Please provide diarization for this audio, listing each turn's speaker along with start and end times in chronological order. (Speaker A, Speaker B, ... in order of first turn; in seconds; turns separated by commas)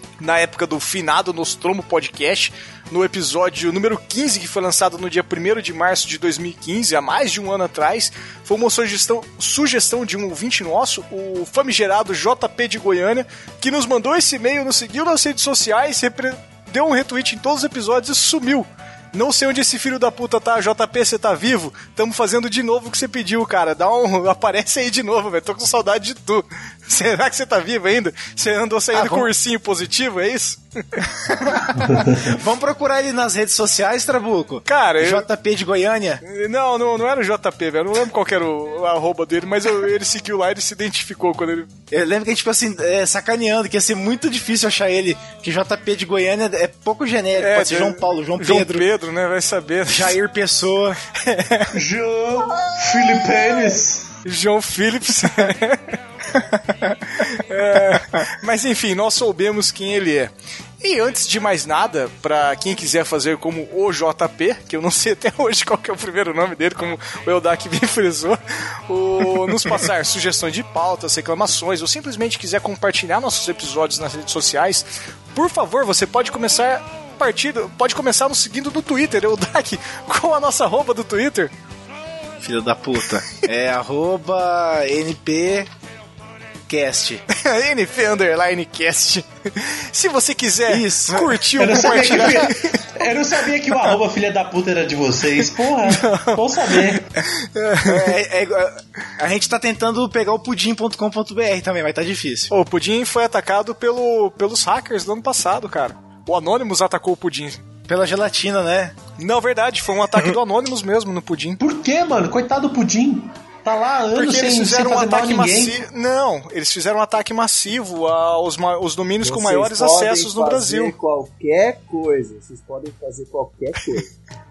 Speaker A: 0.2-31.0, Speaker B: 28.9-29.3, Speaker B: 31.1-36.2, Speaker A: 34.7-35.3, Speaker A: 36.2-41.7, Speaker B: 41.9-48.9, Speaker A: 47.4-50.2, Speaker B: 49.9-51.0, Speaker A: 51.1-51.7, Speaker C: 51.7-54.1, Speaker D: 52.6-53.7, Speaker A: 54.2-56.0, Speaker A: 57.0-81.5, Speaker B: 69.3-69.7, Speaker B: 82.4-85.7, Speaker B: 86.7-87.2, Speaker A: 87.3-92.8, Speaker B: 90.7-91.5, Speaker C: 91.6-97.1, Speaker A: 95.8-98.2, Speaker B: 97.8-102.5, Speaker A: 102.5-107.6, Speaker B: 107.9-109.0, Speaker A: 109.2-111.6, Speaker C: 111.6-115.8, Speaker A: 114.1-120.9, Speaker D: 119.2-124.1